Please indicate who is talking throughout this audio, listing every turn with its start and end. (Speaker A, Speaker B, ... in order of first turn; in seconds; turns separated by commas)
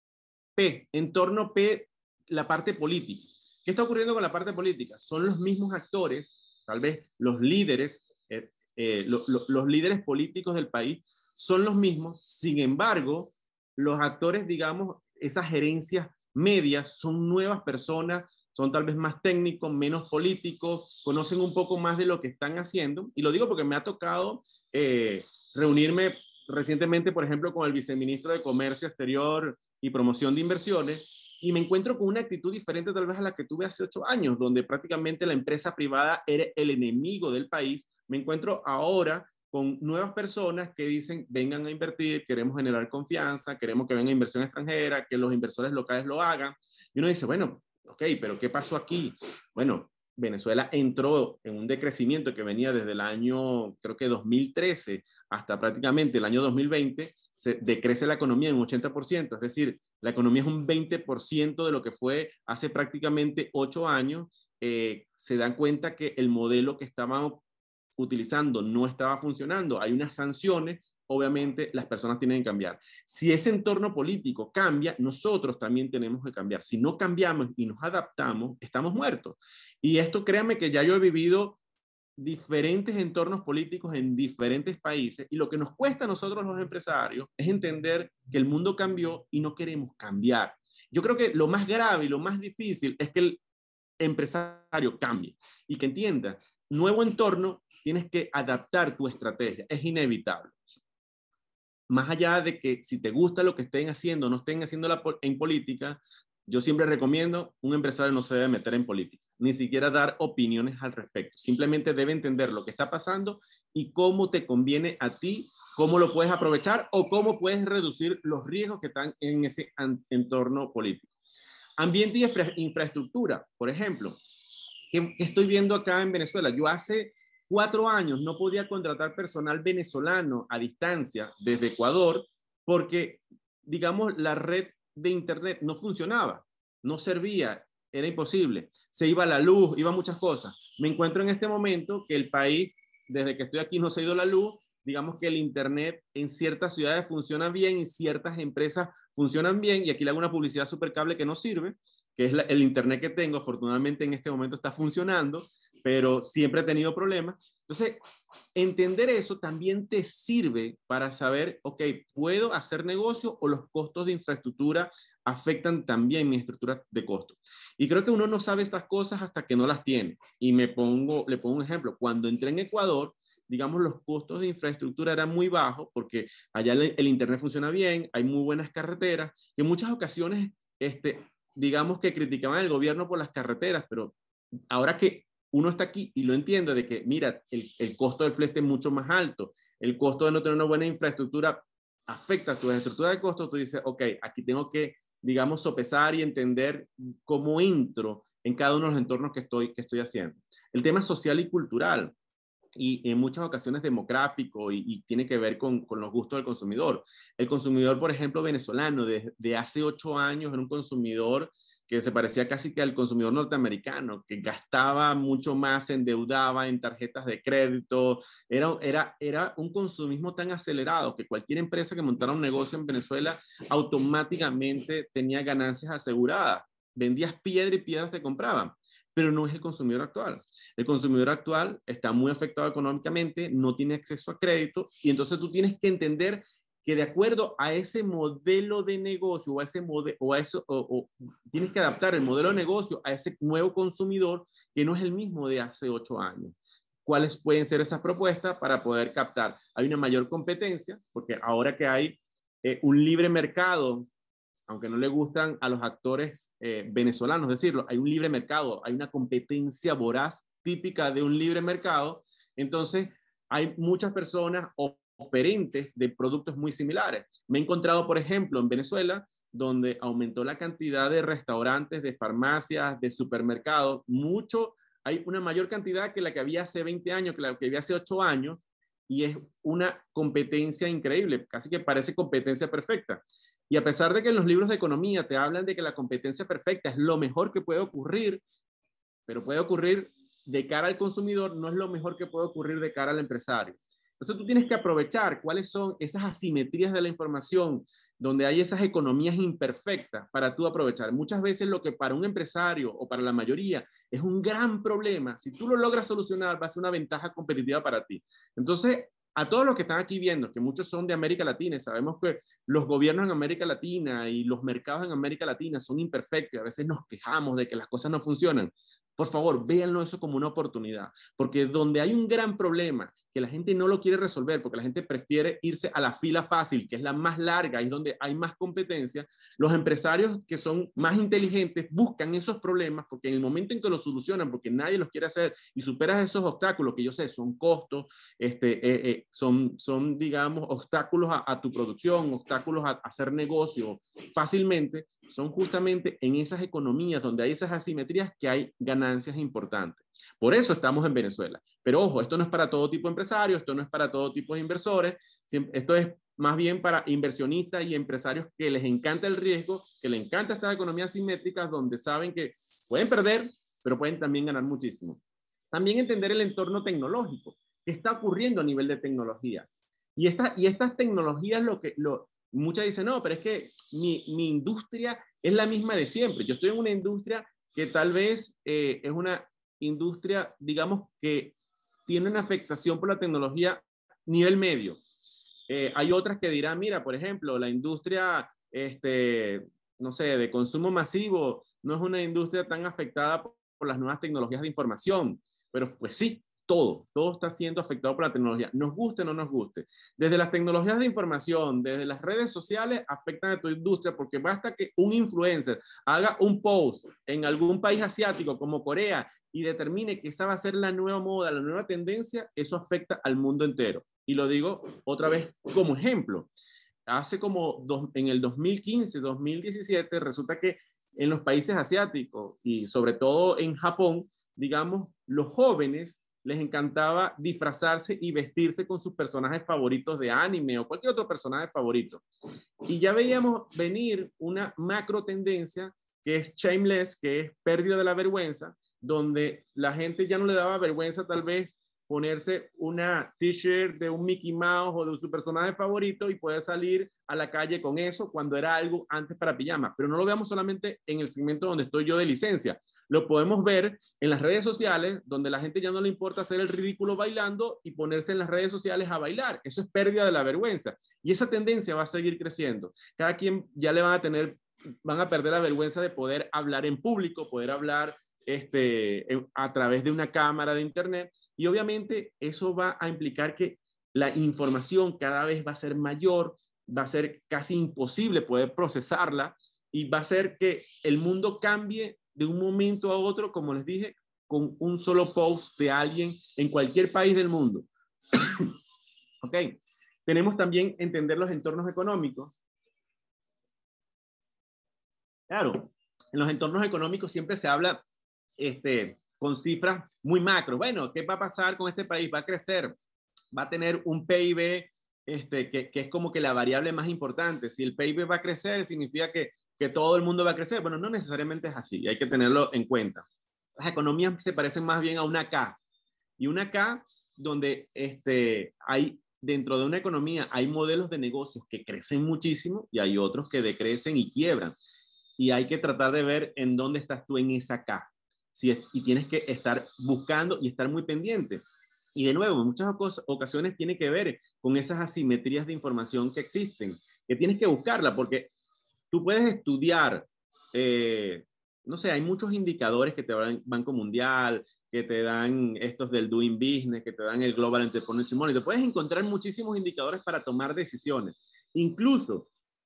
Speaker A: 0.6-67.4, Speaker A: 68.0-81.6, Speaker A: 82.2-93.4, Speaker A: 94.0-100.6, Speaker A: 101.9-121.1, Speaker A: 121.8-124.2, Speaker A: 124.9-158.0, Speaker A: 158.5-184.1, Speaker A: 184.7-202.1, Speaker A: 202.8-254.1, Speaker A: 254.7-288.4, Speaker A: 289.3-365.2, Speaker A: 365.7-381.5, Speaker A: 382.1-385.0, Speaker A: 385.7-416.5, Speaker A: 417.1-432.2, Speaker A: 432.8-488.7, Speaker A: 489.4-492.5, Speaker A: 495.5-498.0, Speaker A: 498.6-502.9, Speaker A: 503.5-513.2, Speaker A: 513.8-515.8, Speaker A: 516.4-524.8, Speaker A: 525.4-531.6, Speaker A: 532.1-538.5, Speaker A: 539.1-552.5